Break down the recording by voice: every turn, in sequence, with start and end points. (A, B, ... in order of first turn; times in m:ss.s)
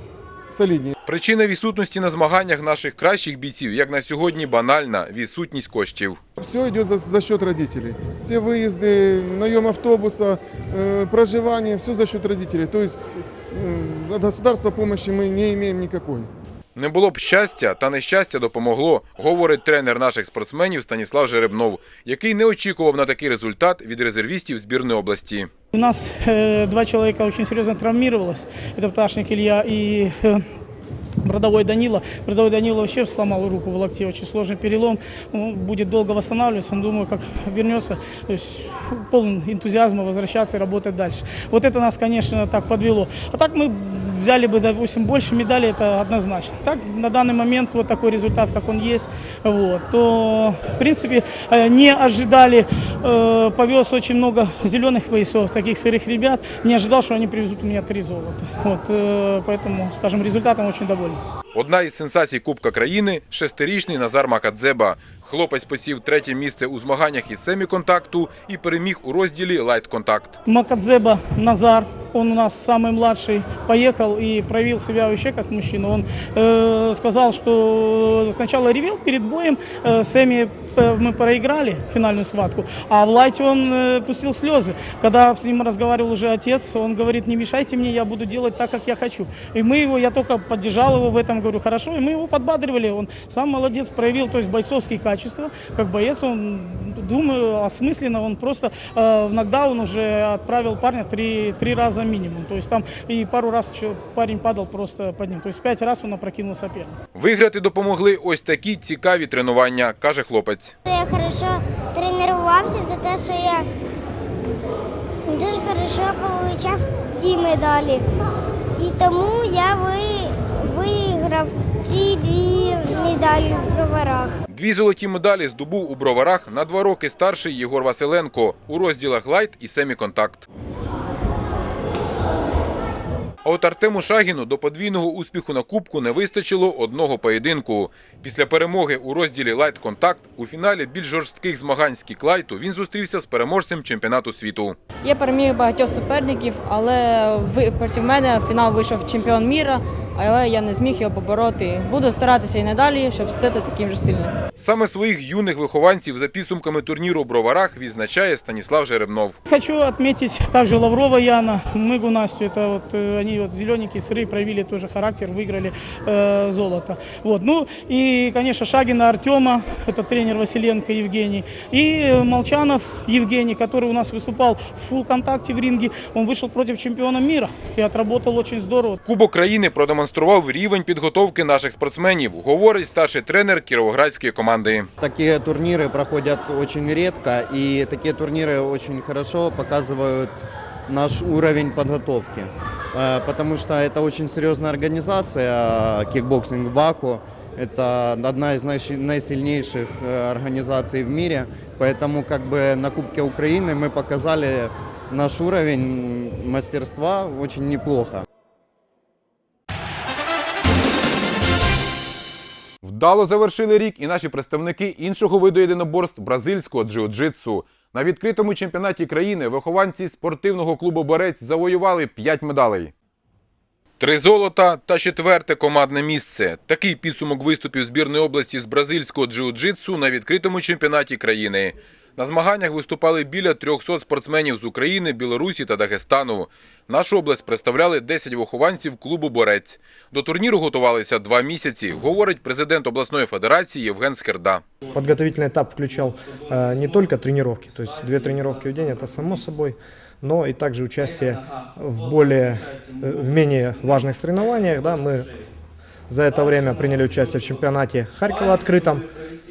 0:00.5-0:00.9 A
0:01.0-0:06.2 B
0:06.4-0:16.3 A
0:16.7-0:25.5 B
0:25.7-0:30.4 C
0:31.2-1:01.2 C
1:01.5-1:10.4 B
1:10.4-1:47.0 C
1:47.1-1:50.7 B
1:50.8-1:53.6 D
1:55.3-1:58.0 D
1:58.8-2:04.4 D
2:04.5-2:10.4 B
2:13.4-2:24.8 B
2:25.0-2:34.3 E
2:34.6-2:39.4 B
2:39.5-2:59.0 C
2:59.0-3:04.9 B
3:05.0-3:28.2 F
3:32.8-3:42.9 B
3:44.0-4:04.6 B
4:04.9-4:15.3 G
4:16.1-4:19.1 G